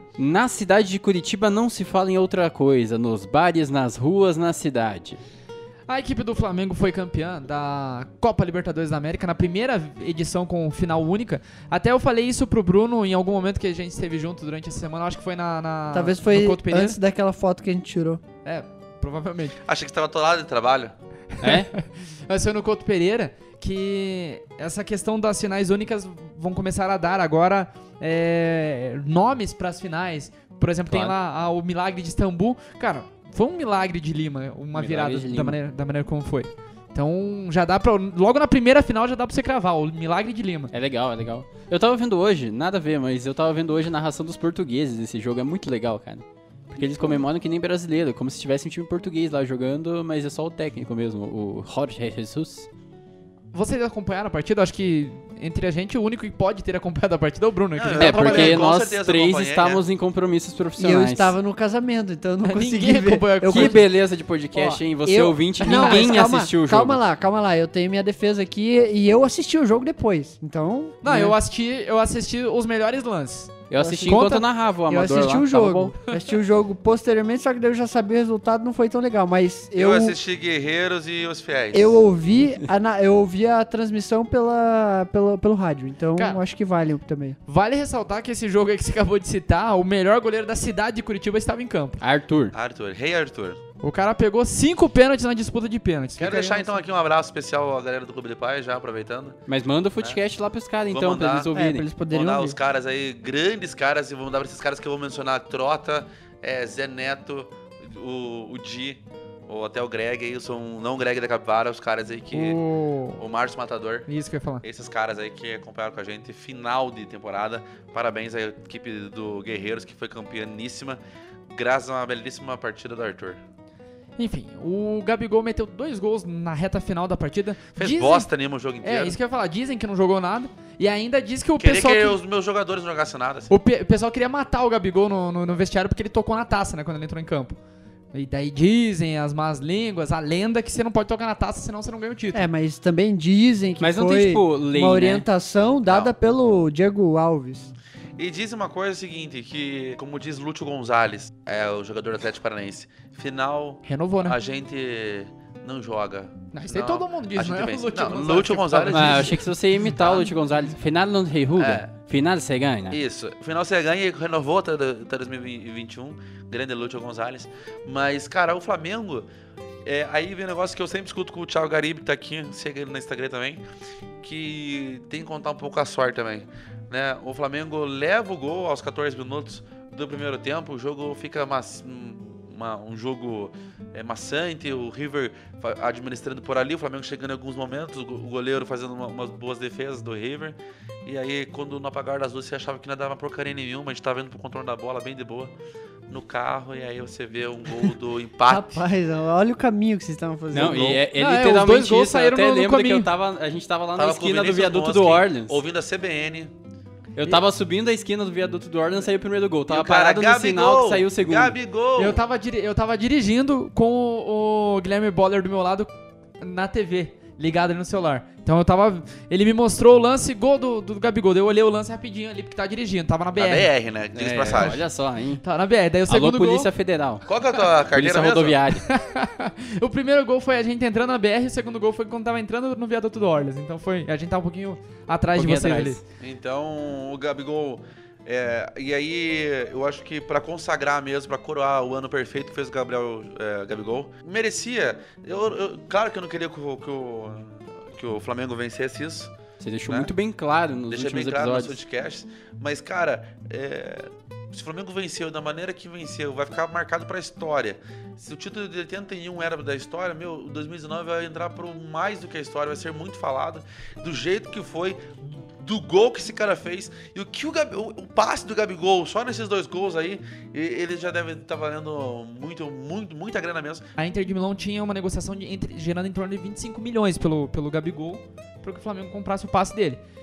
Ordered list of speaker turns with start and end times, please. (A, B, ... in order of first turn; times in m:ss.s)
0:00.2-0:05.2 A
0:05.9-0:17.0 B
0:15.9-0:18.2 C
0:18.4-0:19.6 B
0:19.7-0:20.9 D
0:21.4-0:21.7 A
0:21.4-0:40.7 B
0:30.9-0:31.2 A
0:34.7-0:35.6 A
0:40.7-0:52.7 A
0:53.5-0:58.7 B
0:57.7-0:59.8 D
0:58.0-1:01.3 A
1:00.8-1:03.9 C
1:02.4-1:03.8 B
1:03.4-1:07.0 A
1:04.5-1:11.4 C
1:05.6-1:06.1 B
1:11.0-1:14.4 B
1:13.7-1:15.9 A
1:14.9-1:20.2 C
1:19.7-1:22.0 D
1:21.7-1:27.4 C
1:26.2-1:26.4 B
1:27.4-1:32.0 B
1:32.0-1:32.5 A
1:32.5-1:33.6 D
1:33.8-1:36.8 B
1:36.2-1:39.4 D
1:39.5-1:41.8 A
1:40.9-1:41.5 D
1:41.5-1:42.6 C
1:42.1-1:52.6 D
1:52.3-1:53.2 B
1:53.2-1:54.1 D
1:54.1-1:54.6 B
1:54.6-2:03.4 D
2:04.2-2:08.3 B
2:07.8-2:09.2 D
2:08.8-2:12.2 B
2:11.6-2:13.5 D
2:13.5-2:17.6 B
2:18.1-2:22.4 B
2:22.3-2:27.7 C
2:23.8-2:25.3 A
2:25.9-2:26.1 D
2:28.2-2:39.4 D
2:33.8-2:34.4 B
2:36.5-2:39.5 B
2:38.9-2:43.0 A
2:39.9-2:40.3 D
2:41.6-2:41.9 D
2:42.9-2:49.3 D
2:49.8-2:53.6 D
2:54.2-3:15.5 D
3:16.1-3:18.8 D
3:18.4-3:21.0 C
3:20.5-3:25.6 A
3:21.1-3:23.1 B
3:24.0-3:26.5 D
3:27.2-3:31.6 A
3:29.7-3:32.2 D
3:32.0-3:43.7 B
3:43.4-3:44.8 D
3:44.1-3:45.4 A
3:45.4-3:46.7 B
3:46.1-3:47.2 A
3:47.2-3:48.6 D
3:47.9-3:48.8 A
3:48.9-3:56.0 B
3:55.3-3:56.0 A
3:56.2-4:09.3 D
4:09.6-4:11.8 A
4:09.9-4:10.1 D
4:10.9-4:33.8 D
4:34.0-4:40.0 B